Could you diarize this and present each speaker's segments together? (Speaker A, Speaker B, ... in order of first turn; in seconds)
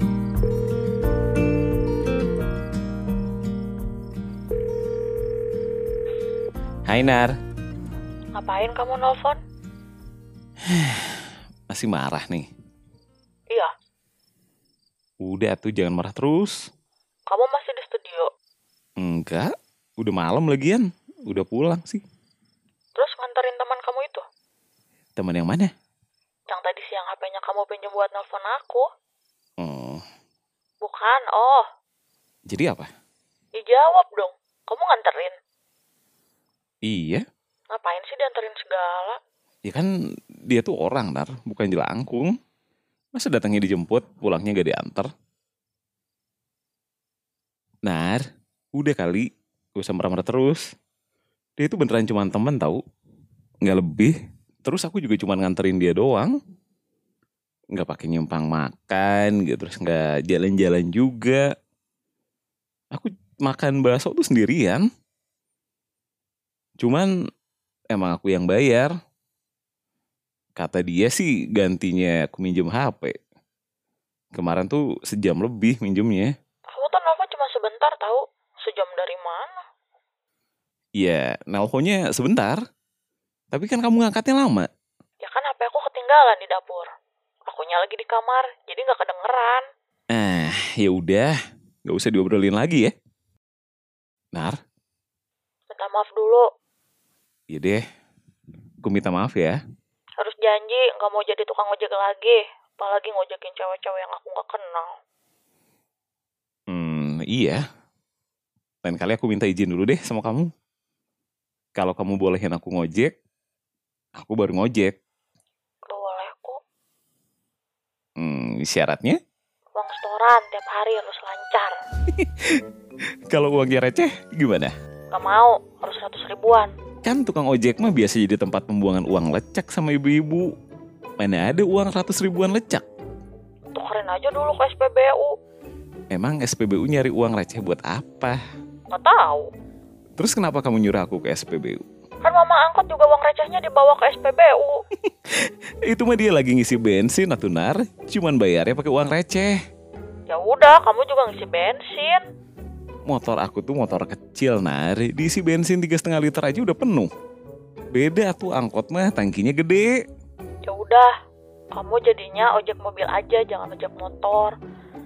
Speaker A: 6.9-7.3, 10.7-12.5, 15.2-16.6, 19.0-22.0, 25.1-25.7, 29.6-30.0, 32.5-32.9, 36.9-37.2, 40.5-42.3, 43.1-45.1, 47.8-48.2, 48.8-50.6, 51.6-52.8, 53.6-56.3, 57.7-61.4, 62.9-64.8, 66.8-67.1, 67.9-68.9, 70.6-73.1, 74.3-76.3, 81.0-82.6, 83.5-84.7, 90.1-91.3, 91.9-92.9, 97.5-97.8, 98.8-99.5, 106.7-107.6, 108.8-110.5, 111.8-113.1, 114.2-114.9, 118.2-119.2, 122.1-122.6, 123.3-124.7, 127.0-130.5, 131.2-132.8, 136.1-138.4, 140.2-141.8, 145.0-149.5, 153.1-157.1, 157.9-160.0
Speaker B: 8.3-9.4, 17.3-18.3, 22.9-24.2, 26.5-28.8, 30.8-31.6, 33.6-35.4, 37.7-39.2, 76.7-79.6, 85.2-86.9, 87.5-89.6, 95.7-96.4, 100.2-104.9, 115.9-116.6, 119.7-121.8, 125.1-126.7, 133.7-135.3, 138.9-139.5, 142.2-144.8, 150.3-152.2, 160.7-161.1, 161.7-164.5